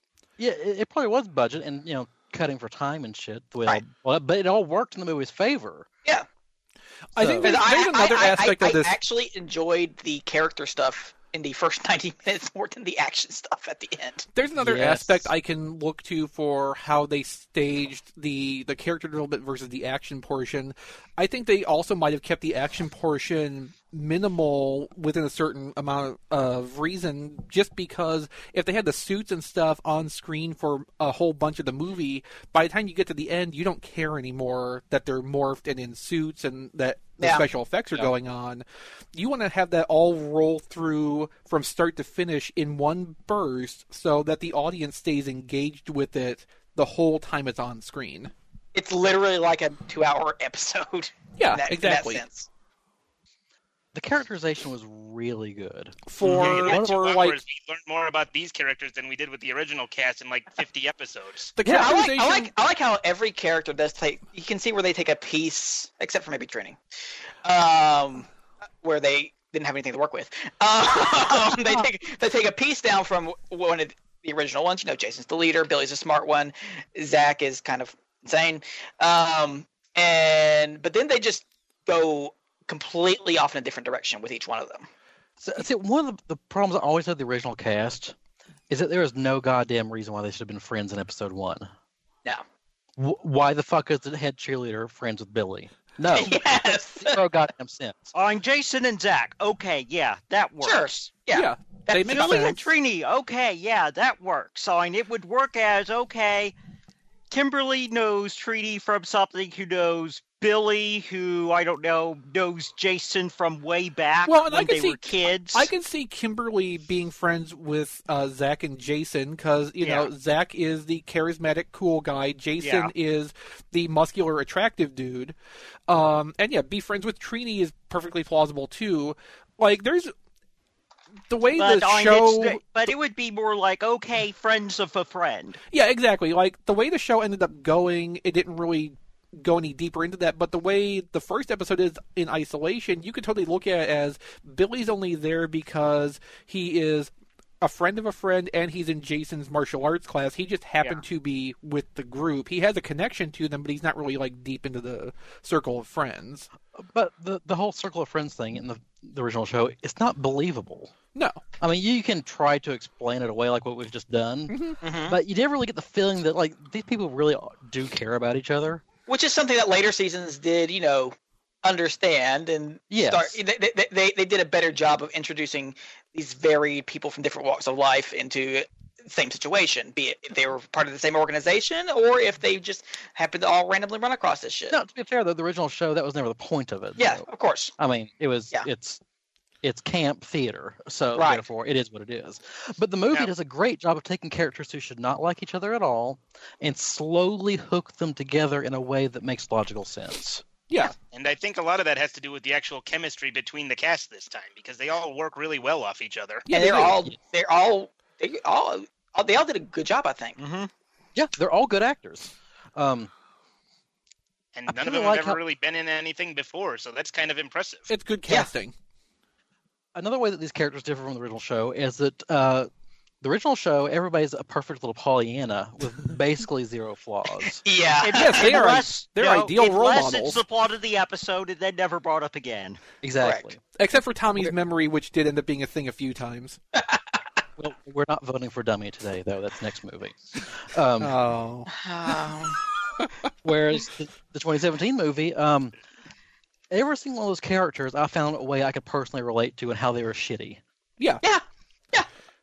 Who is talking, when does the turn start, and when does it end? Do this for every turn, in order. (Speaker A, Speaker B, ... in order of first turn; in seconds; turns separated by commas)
Speaker A: 0.4-5.9, Speaker B: 7.2-8.9, Speaker A: 7.2-7.6, Speaker C: 7.4-14.3, Speaker B: 14.3-48.3, Speaker A: 14.6-15.3, Speaker C: 48.7-52.5, Speaker B: 51.4-52.2, Speaker A: 53.9-56.0, Speaker B: 56.1-57.4, Speaker D: 56.2-61.6, Speaker A: 56.7-56.9, Speaker B: 61.6-62.5, Speaker C: 61.6-66.8, Speaker C: 67.4-68.3, Speaker C: 68.8-84.9, Speaker A: 85.4-88.1, Speaker A: 88.7-91.7, Speaker A: 93.0-98.1, Speaker C: 96.1-97.2, Speaker E: 98.1-101.1, Speaker C: 100.6-102.5, Speaker B: 101.3-102.7, Speaker E: 102.0-106.5, Speaker E: 107.3-115.7, Speaker B: 114.2-125.3, Speaker E: 119.8-120.1, Speaker E: 122.6-122.9, Speaker B: 125.9-130.1, Speaker B: 131.3-132.6, Speaker E: 131.6-135.6, Speaker B: 135.7-156.5, Speaker A: 156.8-160.9, Speaker B: 161.1-161.4, Speaker A: 161.6-168.8, Speaker B: 164.5-164.8, Speaker C: 164.8-165.2, Speaker C: 169.1-184.8, Speaker A: 172.9-173.4, Speaker A: 184.7-187.3, Speaker C: 187.0-187.7, Speaker A: 187.8-189.0, Speaker A: 189.6-200.4, Speaker C: 191.1-191.4, Speaker B: 200.7-200.9, Speaker D: 201.1-206.4, Speaker B: 206.4-207.0, Speaker C: 206.5-210.4, Speaker E: 210.4-210.7, Speaker A: 211.1-213.1, Speaker D: 214.5-217.9, Speaker A: 214.7-215.4, Speaker B: 217.9-218.7, Speaker A: 219.9-222.7, Speaker A: 223.2-227.6, Speaker C: 227.6-228.5, Speaker E: 228.0-232.8, Speaker B: 228.1-230.4, Speaker A: 233.0-233.6, Speaker C: 233.2-233.4, Speaker B: 233.7-236.6, Speaker C: 236.8-237.0, Speaker A: 237.6-241.2, Speaker B: 241.0-241.7, Speaker C: 241.7-242.6, Speaker A: 243.4-245.7, Speaker A: 246.7-250.6, Speaker B: 251.0-251.2, Speaker C: 251.2-252.1